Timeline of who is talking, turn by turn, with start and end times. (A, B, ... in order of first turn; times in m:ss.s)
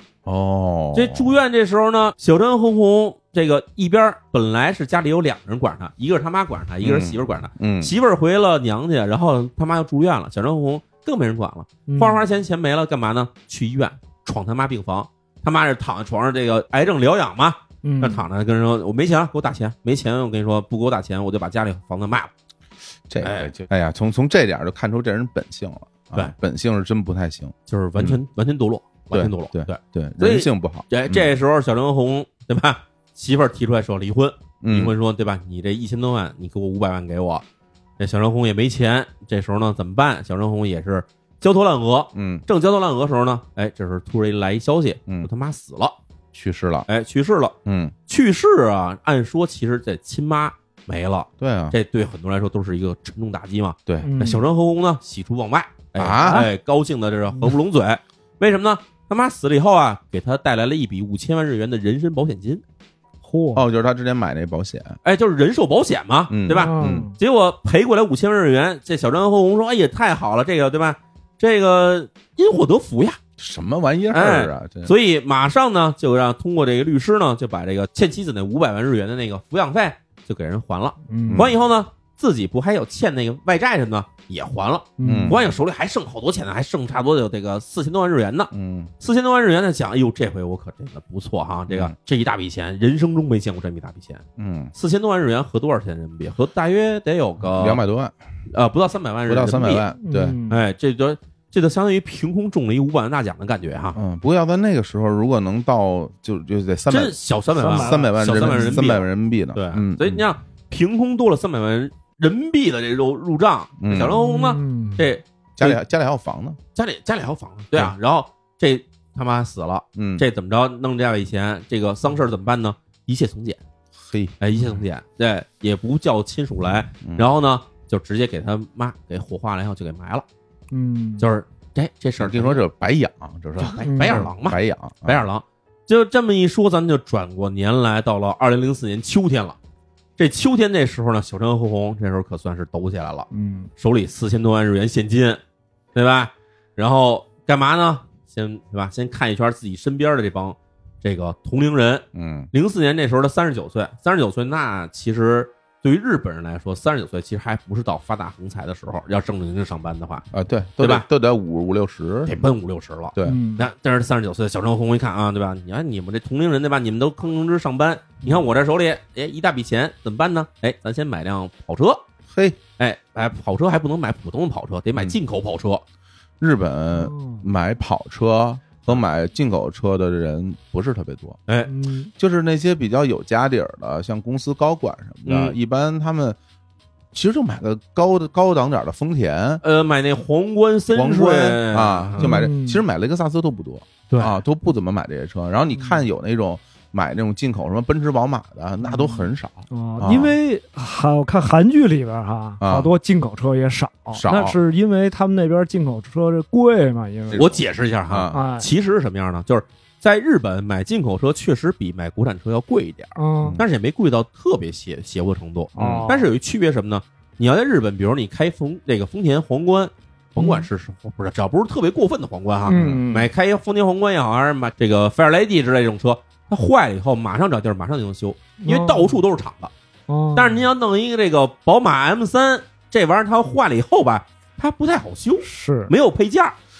0:00.2-0:01.3 A
0:00.9-0:22.3 B
0:06.8-0:07.9 A
0:11.9-0:12.2 C
0:17.8-0:18.2 C
0:23.1-0:28.2 A
0:23.2-0:23.5 B
0:27.7-0:37.4 B
0:29.1-0:31.3 A
0:34.6-0:34.9 A
0:38.0-0:46.0 B
0:42.1-0:42.4 A
0:46.3-0:46.9 A
0:46.9-0:47.6 B
0:47.6-0:47.9 A
0:48.1-1:02.6 B
0:51.4-0:51.8 A
0:53.9-0:54.1 A
0:54.0-0:54.5 C
0:56.0-0:56.5 A
0:56.2-0:56.5 C
1:03.2-1:03.6 C
1:03.5-1:05.0 A
1:05.0-1:13.2 B
1:06.3-1:07.1 A
1:06.5-1:07.1 C
1:13.4-1:14.9 A
1:14.1-1:37.8 B
1:21.1-1:21.5 C
1:21.3-1:21.6 A
1:25.0-1:25.4 C
1:25.0-1:25.4 A
1:28.5-1:28.9 A
1:31.7-1:31.9 A
1:34.4-1:34.7 A
1:37.5-1:38.1 A
1:38.5-1:39.9 B
1:39.3-1:40.4 A
1:40.0-1:40.6 C
1:40.5-1:44.0 B
1:44.0-1:47.2 A
1:46.9-1:55.8 B
1:47.6-1:48.8 C
1:47.7-1:50.2 A
1:53.8-1:54.2 A
1:54.1-1:55.1 C
1:55.6-1:56.6 A
1:56.8-2:03.6 B
2:00.0-2:00.2 A
2:04.0-2:04.4 A
2:04.4-2:10.2 B
2:10.7-2:11.2 C
2:11.2-2:12.6 B
2:12.2-2:15.2 A
2:13.6-2:19.6 B
2:13.9-2:14.3 C
2:20.2-2:25.4 B
2:23.3-2:23.7 C
2:26.0-2:40.3 B
2:32.1-2:32.5 A
2:40.3-2:42.4 A
2:40.8-2:41.1 B
2:42.3-2:52.0 B
2:43.2-2:43.6 C
2:52.3-2:52.6 A
2:52.8-2:55.8 B
2:56.4-3:01.4 A
2:56.9-2:57.4 C
3:01.7-3:02.1 C
3:02.2-3:06.4 A
3:05.2-3:05.6 B
3:07.1-3:09.6 A
3:09.6-3:12.3 B
3:10.9-3:20.4 A
3:12.2-3:12.8 C
3:15.7-3:16.0 C
3:18.8-3:27.5 C
3:22.6-3:22.9 A
3:24.1-3:24.6 A
3:27.3-3:28.4 A
3:27.4-3:49.7 B
3:28.3-3:28.7 C
3:33.2-3:33.6 C
3:35.8-3:36.3 C
3:35.8-3:36.1 A
3:40.4-3:40.7 C
3:42.7-3:43.3 C
3:42.7-3:43.0 A
3:48.6-3:49.2 C
3:50.1-3:50.7 C
3:50.4-3:56.6 B
3:55.4-3:55.9 C